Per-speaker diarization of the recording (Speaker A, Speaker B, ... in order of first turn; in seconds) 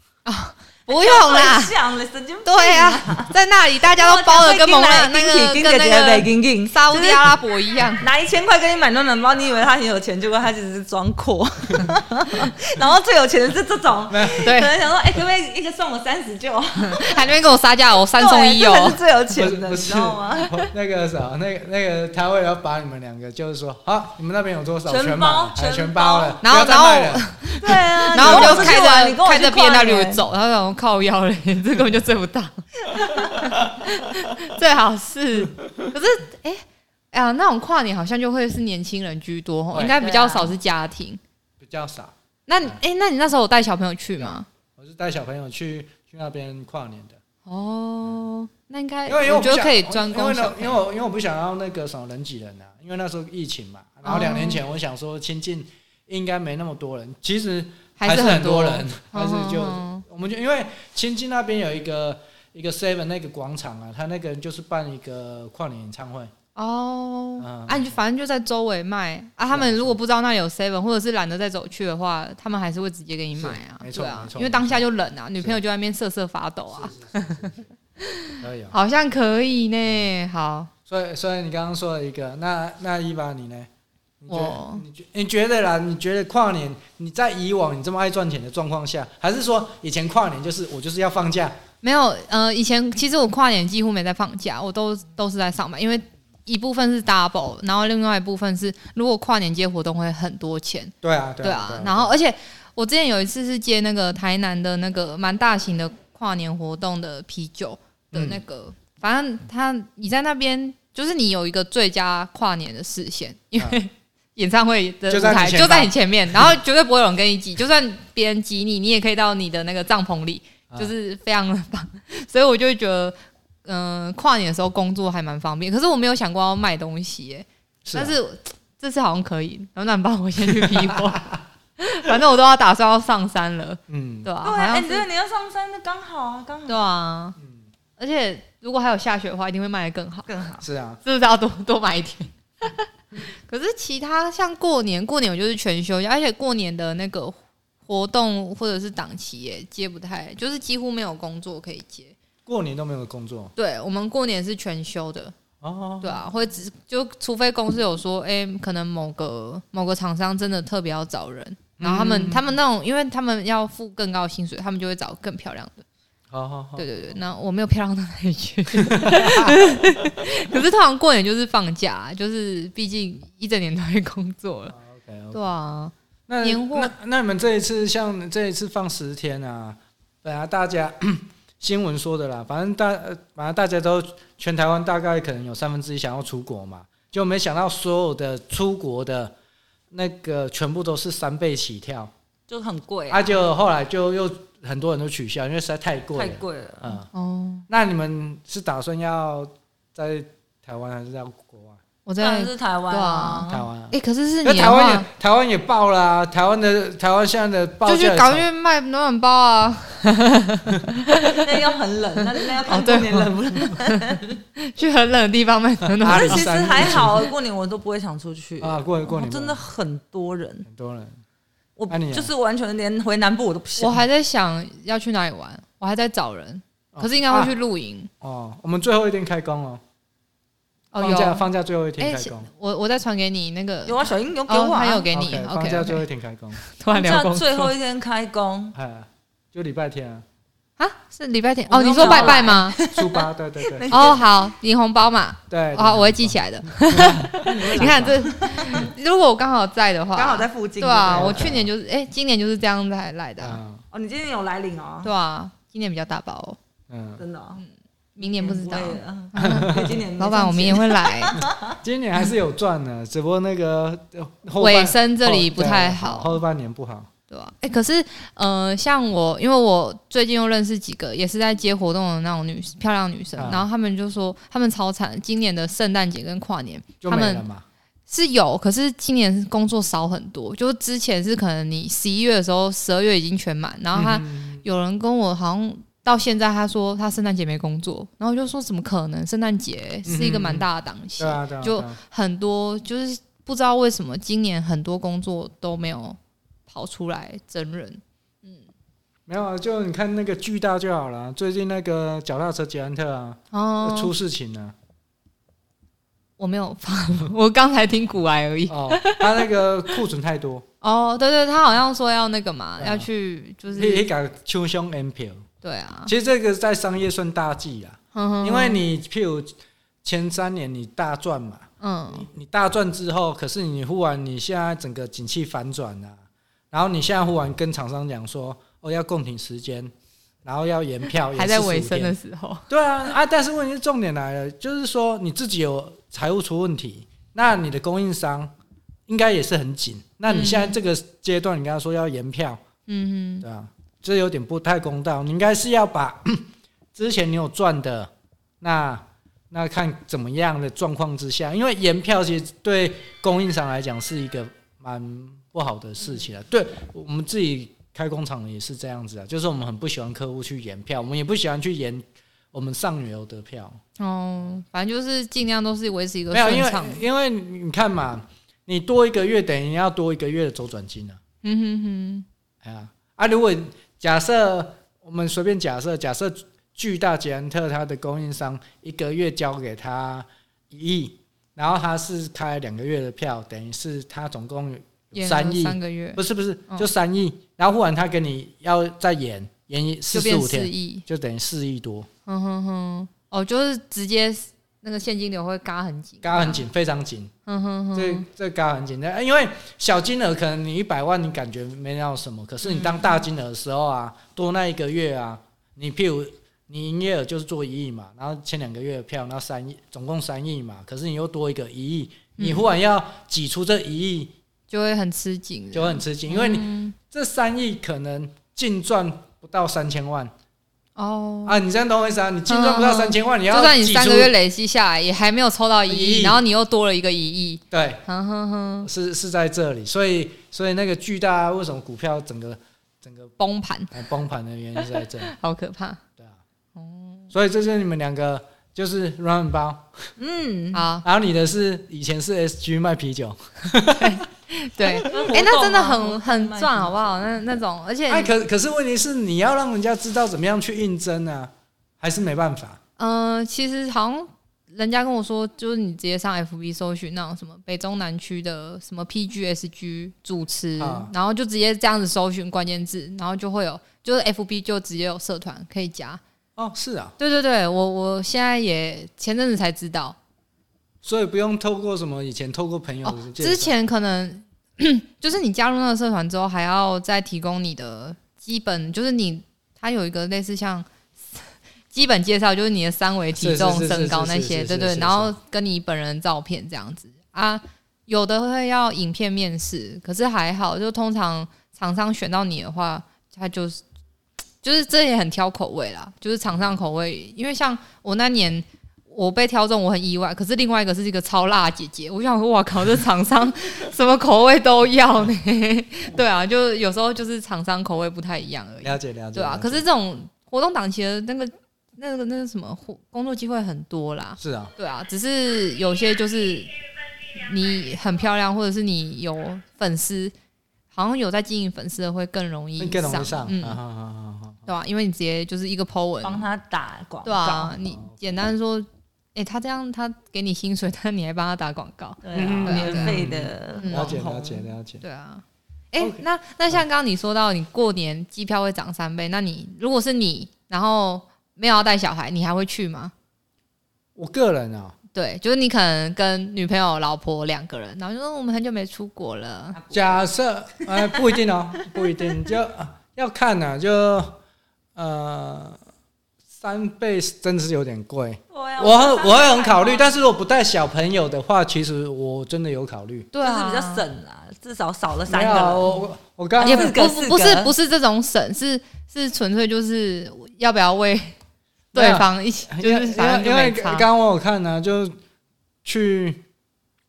Speaker A: 0.2-1.7, 2.5-8.1, 14.4-14.7, 16.8-19.0, 26.4-41.2, 42.5-44.5, 47.5-50.8, 54.0-54.6, 58.0-60.0, 66.5-77.5, 78.0-80.7, 84.3-84.8, 91.8-135.1, 136.7-137.4, 138.0-140.3, 141.0-152.2, 153.6-155.3, 156.0-165.8, 166.8-174.7, 175.3-176.9, 197.1-197.7, 202.1-205.1, 207.8-211.6, 212.2-217.0, 223.8-228.1, 230.9-231.5, 232.0-236.1, 236.6-237.7, 240.8-242.8, 243.9-253.6, 255.0-256.6, 258.2-261.4, 264.6-266.4, 267.3-277.4, 278.1-298.6, 303.5-304.1, 306.4-310.0, 310.8-314.1, 315.6-316.1, 318.1-318.8, 321.8-322.3, 331.3-332.7, 340.3-340.8, 342.9-343.4, 364.0-367.0, 371.4-372.3, 385.1-386.9, 390.1-391.1, 392.3-396.6, 397.5-398.3, 402.8-403.1, 412.4-412.7, 414.7-416.9, 421.0-421.6, 422.5-428.9, 433.4-433.9, 435.2-436.0, 436.8-437.3, 440.7-441.1, 443.9-448.3, 453.0-466.2, 467.2-470.2, 473.0-493.8, 494.6-516.7, 517.3-520.3, 520.9-523.8, 524.7-526.5, 527.2-533.2, 533.8-534.2, 535.0-543.1, 545.1-549.8, 563.3-564.1, 566.6-571.4, 571.9-574.1
Speaker B: 0.9-3.4, 3.9-7.4, 8.0-17.3, 18.1-20.6, 24.9-26.4, 27.6-30.2, 32.9-33.4, 39.9-40.5, 134.4-136.8, 140.3-140.6, 192.5-193.3, 196.2-197.0, 202.2-203.7, 211.3-214.4, 216.0-220.7, 221.8-224.0, 233.9-235.1, 236.9-238.8, 241.7-244.3, 247.4-248.9, 250.2-251.6, 253.9-255.1, 257.2-257.6, 258.2-261.8, 440.2-440.9, 445.1-447.2, 526.2-527.8, 532.2-534.7, 549.7-550.3, 550.8-551.2, 558.5-560.2, 563.4-566.0, 566.6-567.7
Speaker C: 14.1-14.5, 19.3-27.4, 28.1-28.8, 35.6-35.9, 41.6-42.8, 44.2-47.2, 49.1-66.3, 67.4-67.9, 69.5-70.0, 73.4-74.8, 76.7-77.6, 78.4-78.8, 80.9-83.7, 84.2-91.6, 101.0-102.1, 108.1-108.4, 115.1-116.5, 127.8-128.2, 130.5-131.4, 133.9-134.3, 140.6-141.0, 152.5-153.5, 155.6-156.2, 161.8-162.4, 166.3-166.9, 168.8-169.6, 174.7-175.5, 176.3-189.3, 189.9-192.1, 193.1-197.1, 197.7-201.8, 203.5-208.5, 215.9-217.2, 218.6-219.6, 220.7-221.2, 221.9-222.3, 226.9-227.5, 228.2-229.8, 231.0-232.5, 235.1-236.6, 238.8-240.2, 242.0-244.2, 245.5-248.2, 251.1-251.7, 253.4-253.8, 256.9-257.2, 259.4-260.0, 261.8-267.1, 273.4-273.6, 277.0-277.6, 283.9-284.6, 290.1-290.7, 291.2-292.0, 299.3-304.7, 308.7-310.7, 312.8-313.1, 313.7-315.4, 316.1-329.9, 330.4-332.1, 332.7-338.5, 339.1-342.6, 343.4-348.1, 348.6-363.8, 366.3-371.2, 372.6-392.1, 396.2-397.3, 397.9-414.3, 415.7-420.3, 421.4-424.3, 425.9-426.4, 427.7-428.0, 428.8-433.3, 433.9-435.3, 437.3-440.1, 441.0-444.2, 448.1-452.8, 460.8-461.1, 466.6-467.1, 471.0-473.8, 483.4-485.3, 508.8-509.8, 514.4-514.7, 522.8-524.7, 532.3-535.0, 544.2-545.0, 549.9-554.4, 555.0-555.8, 556.6-563.3, 565.3-566.9, 572.0-575.2, 575.9-576.4